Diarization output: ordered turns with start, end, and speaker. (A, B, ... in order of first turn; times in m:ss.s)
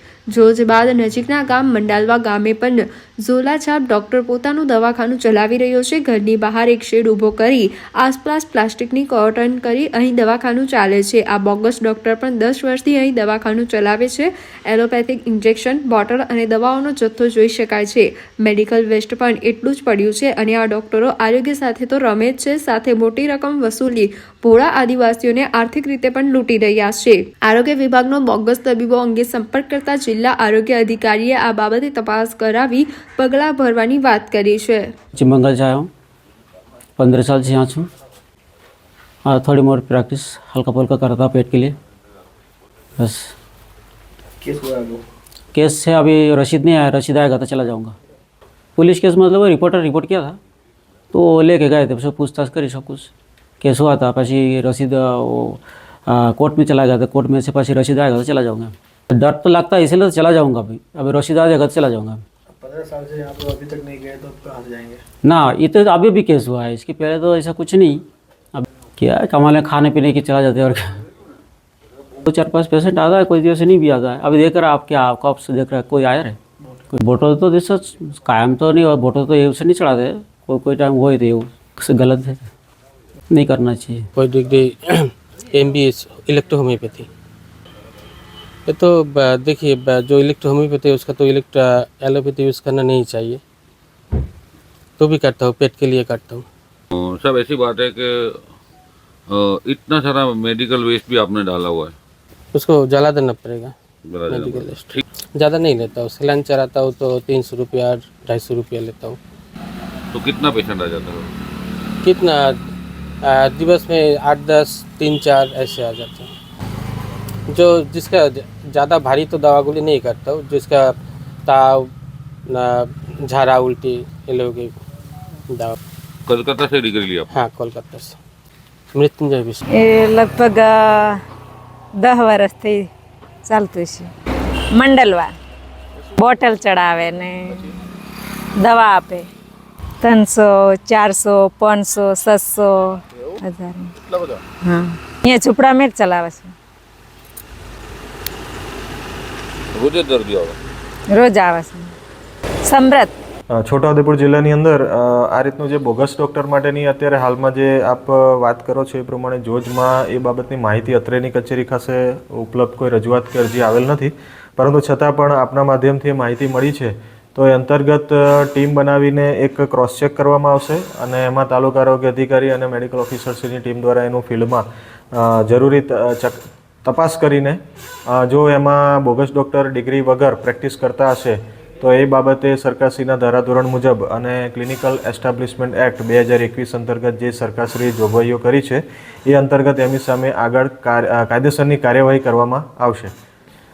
0:00.3-0:34.8 A
0:35.1-0:35.9 B
0:37.0-0:37.9 B
0:39.2-0:41.8 B
0:43.0-0:43.3 B
0:44.4-0:45.0 C
0:45.5-0:47.9 B
0:48.8-0:50.4 B
0:51.1-0:53.1 B
0:53.6-1:02.2 B
1:02.5-1:05.0 C
1:05.2-1:11.0 B
1:12.2-1:16.4 B
1:16.9-1:22.5 B
1:23.3-1:24.0 B
1:24.2-1:27.1 D
1:28.7-1:33.4 D
1:35.0-1:36.4 D
1:36.9-1:38.4 E
1:39.3-1:41.9 E
1:42.5-1:43.7 D
1:44.0-1:45.0 E
1:44.3-1:49.2 D
1:50.1-1:51.3 E
1:52.0-1:52.6 D
1:53.2-1:56.3 D
1:57.5-2:00.9 D
2:01.4-2:01.9 D
2:02.5-2:04.8 D
2:05.5-2:05.8 D
2:06.3-2:07.3 E
2:07.3-2:08.2 D
2:08.9-2:09.6 D
2:09.8-2:11.2 F
2:12.0-2:12.9 F
2:13.4-2:14.1 F
2:14.8-2:15.3 F
2:16.2-2:17.7 F
2:18.6-2:19.3 F
2:20.0-2:23.9 F
2:24.6-2:26.5 F
2:29.7-2:30.6 E
2:31.1-2:31.9 F
2:32.6-2:33.2 F
2:33.5-3:13.1 G